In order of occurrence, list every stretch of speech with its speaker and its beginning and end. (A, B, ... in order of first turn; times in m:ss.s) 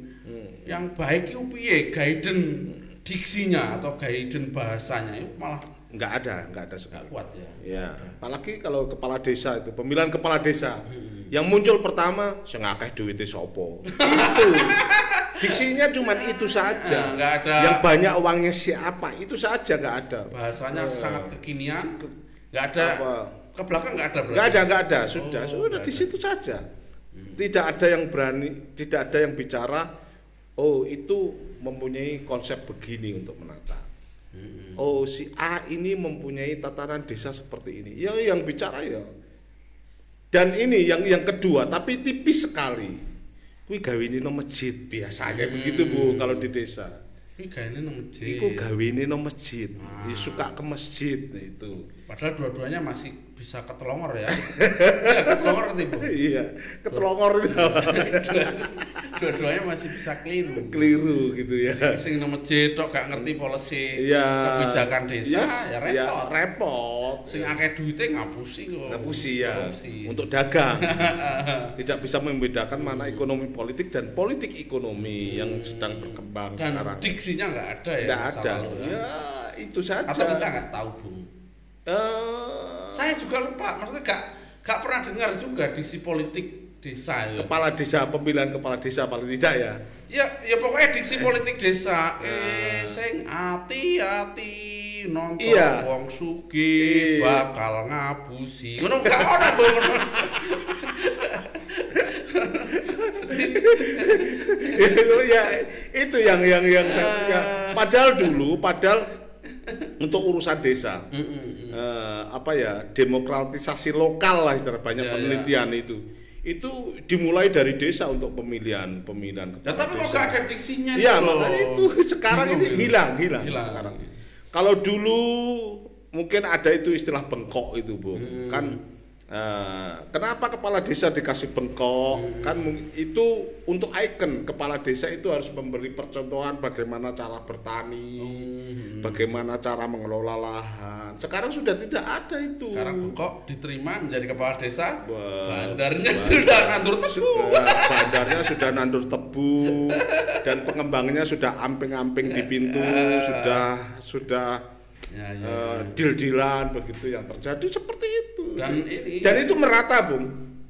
0:00.2-0:00.8 A
0:00.6-0:05.6 B
0:05.9-0:14.8 A
0:06.9-0:08.1 B
0:10.9-0:11.3 B
0:13.9-0:17.8 B
0:15.4-0:21.4 A
0:20.3-0:22.0 B
0:22.5-0:26.2 B
0:22.8-0:23.3 A
0:24.3-0:26.6 A
0:27.1-0:27.4 B
0:27.4-0:29.9 A
0:30.6-0:33.9 A
0:34.3-0:34.9 B
0:34.8-0:39.1 A
0:40.3-0:43.0 A
0:43.7-0:46.9 A
0:45.3-0:46.5 B
0:47.4-0:48.7 B
0:48.2-0:51.9 A
0:49.8-0:50.5 B
0:52.1-0:56.2 B
0:54.4-0:59.4 A
0:56.9-1:01.1 B
1:00.6-1:02.0 A
1:01.7-1:06.3 B
1:04.0-1:07.6 A
1:07.3-1:10.1 B
1:08.9-1:11.1 A
1:10.8-1:11.7 B
1:11.8-1:17.2 A
1:12.7-1:13.3 B
1:15.2-1:19.0 B
1:18.0-1:20.4 A
1:20.1-1:21.3 B
1:21.9-1:23.2 A
1:22.9-1:27.5 B
1:27.4-1:29.8 A
1:30.1-1:45.5 B
1:32.2-1:33.0 A
1:35.4-1:35.9 A
1:36.8-1:37.4 A
1:39.0-1:40.6 A
1:42.7-1:49.0 A
1:46.8-1:48.3 B
1:49.6-1:49.9 B
1:50.0-1:51.0 A
1:51.1-1:51.8 B
1:51.7-2:00.4 A
1:55.0-1:55.5 B
1:59.6-2:04.1 B
2:00.9-2:04.0 A
2:04.5-2:08.8 A
2:08.1-2:08.8 B
2:09.3-2:18.5 A
2:12.1-2:12.8 B
2:18.2-2:19.3 B
2:19.0-2:23.1 A
2:22.7-2:28.6 B
2:25.0-2:34.6 A
2:29.6-2:30.4 B
2:32.2-2:33.6 B
2:35.1-2:36.0 B
2:35.4-2:40.4 A
2:38.6-2:39.5 B